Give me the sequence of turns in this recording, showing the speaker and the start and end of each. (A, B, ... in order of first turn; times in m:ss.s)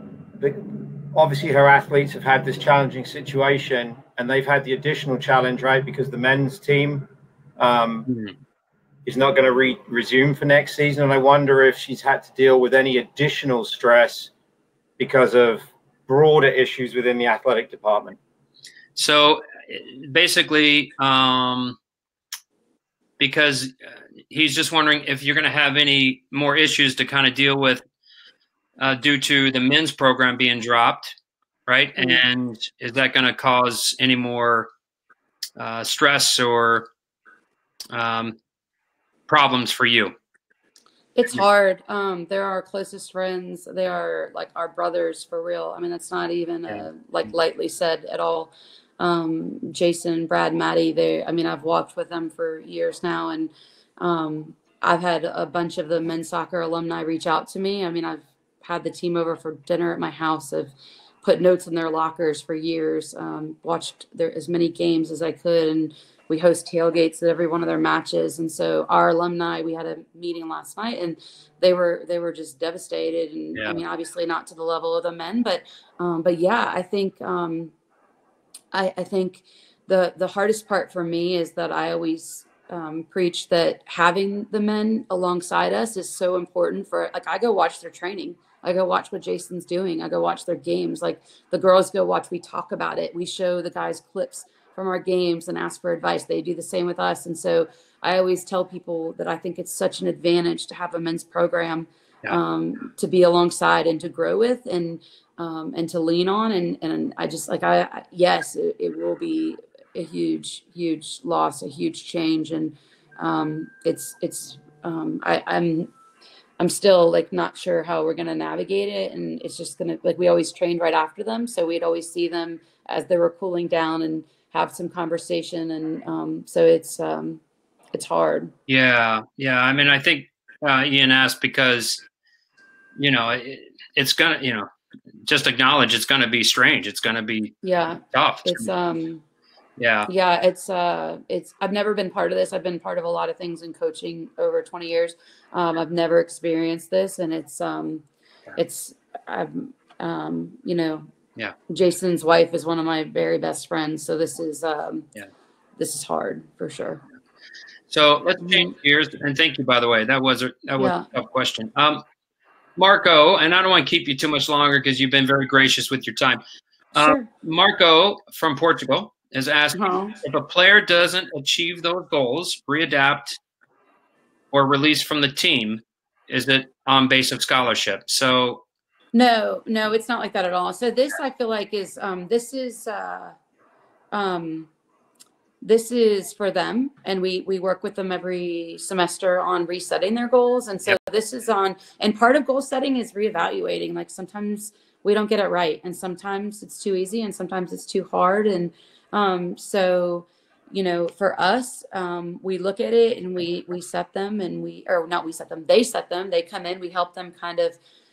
0:00.4-0:08.1 A
0:08.1-0:08.4 B
0:09.1-0:14.3 A
0:15.0-0:18.2 A
0:19.0-0:21.8 B
0:23.2-0:27.8 B
0:28.8-0:31.2 B
0:31.7-0:34.7 B
0:32.0-0:32.2 C
0:35.6-0:36.9 B
0:37.9-0:38.4 B
0:39.3-0:40.2 B
0:41.2-1:17.7 C
1:18.7-1:55.9 C
1:56.6-2:07.4 C
2:07.9-2:08.5 C
2:08.7-2:12.0 B
2:13.0-2:14.7 B
2:15.2-2:18.7 B
2:17.6-2:19.2 C
2:19.8-2:20.1 B
2:20.1-2:28.0 C
2:28.6-2:31.1 C
2:31.7-2:35.1 C
2:35.8-2:37.0 C
2:37.9-2:42.0 B
2:38.4-2:38.7 C
2:40.8-2:41.1 C
2:42.8-2:46.4 B
2:47.0-2:53.4 B
2:47.0-2:47.3 C
2:49.8-2:50.2 C
2:54.5-2:58.6 B
2:59.1-3:03.4 C
3:04.1-3:04.7 C
3:05.6-3:27.8 C